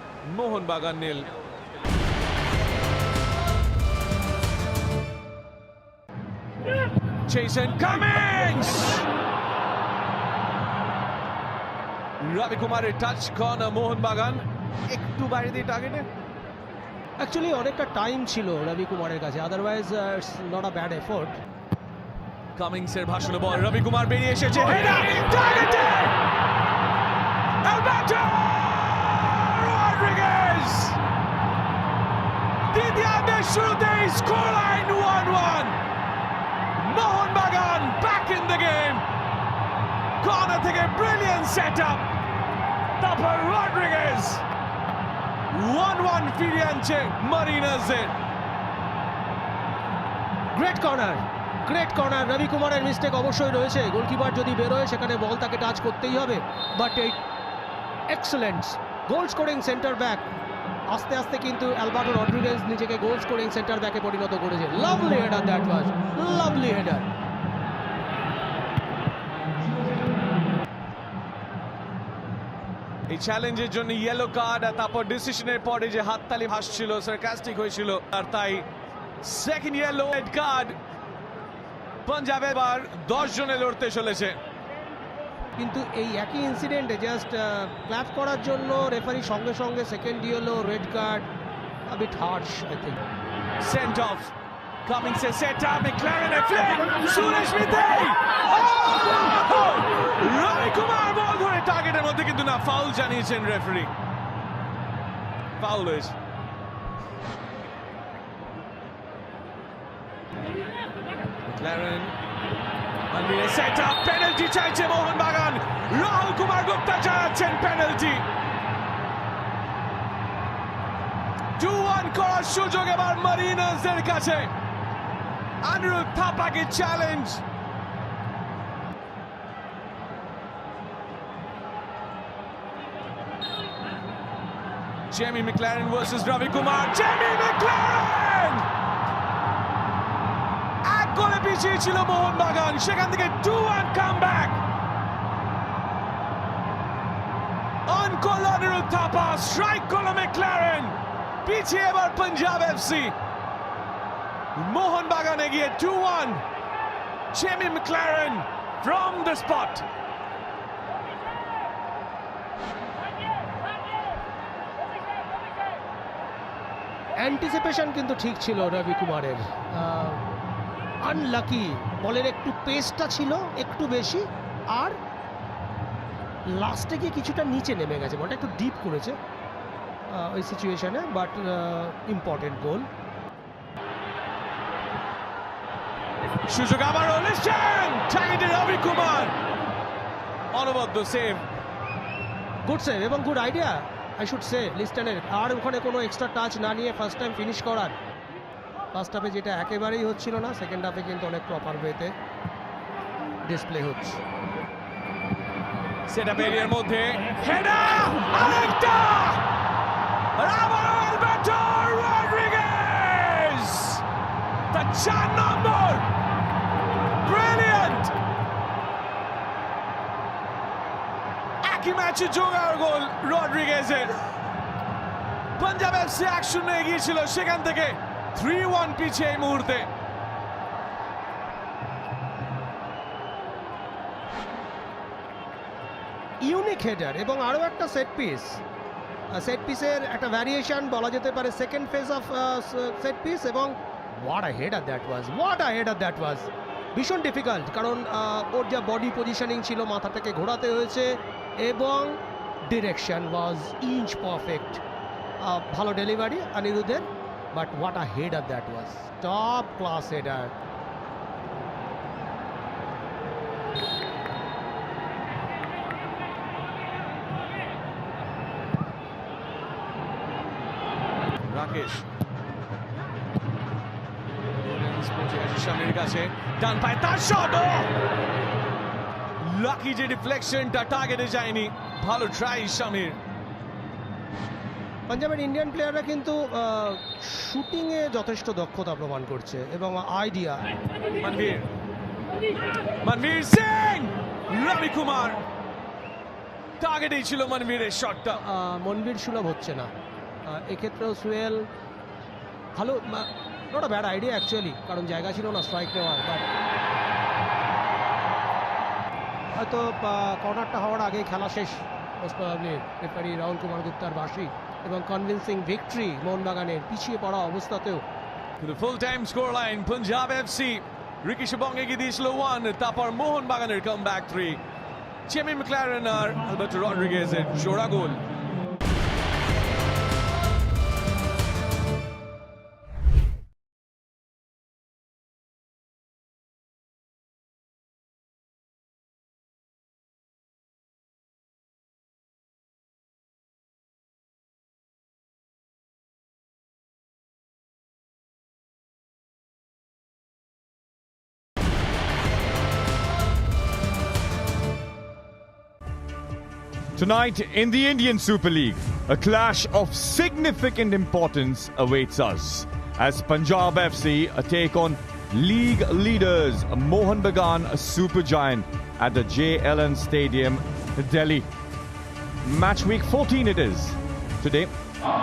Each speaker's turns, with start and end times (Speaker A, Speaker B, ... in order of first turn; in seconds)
Speaker A: 0.2-1.3, 7.2-9.1, 12.2-16.1, 22.6-26.1, 27.6-31.0, 32.7-35.8, 36.8-39.0, 40.2-42.0, 43.0-44.4, 45.5-48.1, 73.1-78.7, 79.2-80.8, 82.0-84.4, 93.6-94.3, 94.8-103.9, 105.6-106.1, 111.4-112.2, 113.1-118.2, 121.5-124.5, 125.6-127.4, 135.1-138.7, 140.8-144.6, 147.9-153.1, 154.5-156.4, 157.3-159.8, 186.5-189.3, 190.5-191.4, 206.1-209.4, 210.4-214.0, 214.7-216.1, 217.2-218.1, 221.6-224.2, 225.6-229.9, 271.4-272.1, 274.6-277.9, 279.4-283.2, 291.2-291.7, 293.0-295.4, 296.8-298.4, 318.6-324.6, 325.3-328.2
Speaker B: 17.2-21.4, 50.5-57.2, 58.1-60.2, 60.9-67.1, 85.6-91.3, 91.9-93.0, 167.2-170.2, 171.0-174.9, 176.5-179.2, 180.1-182.9, 192.6-198.0, 198.9-202.1, 203.4-204.2, 236.4-238.6, 239.3-251.1, 251.6-254.8, 255.4-260.5, 285.1-290.6, 298.4-299.9, 300.5-301.6, 302.7-306.4, 309.5-318.0
Speaker C: 356.9-371.5, 372.4-374.7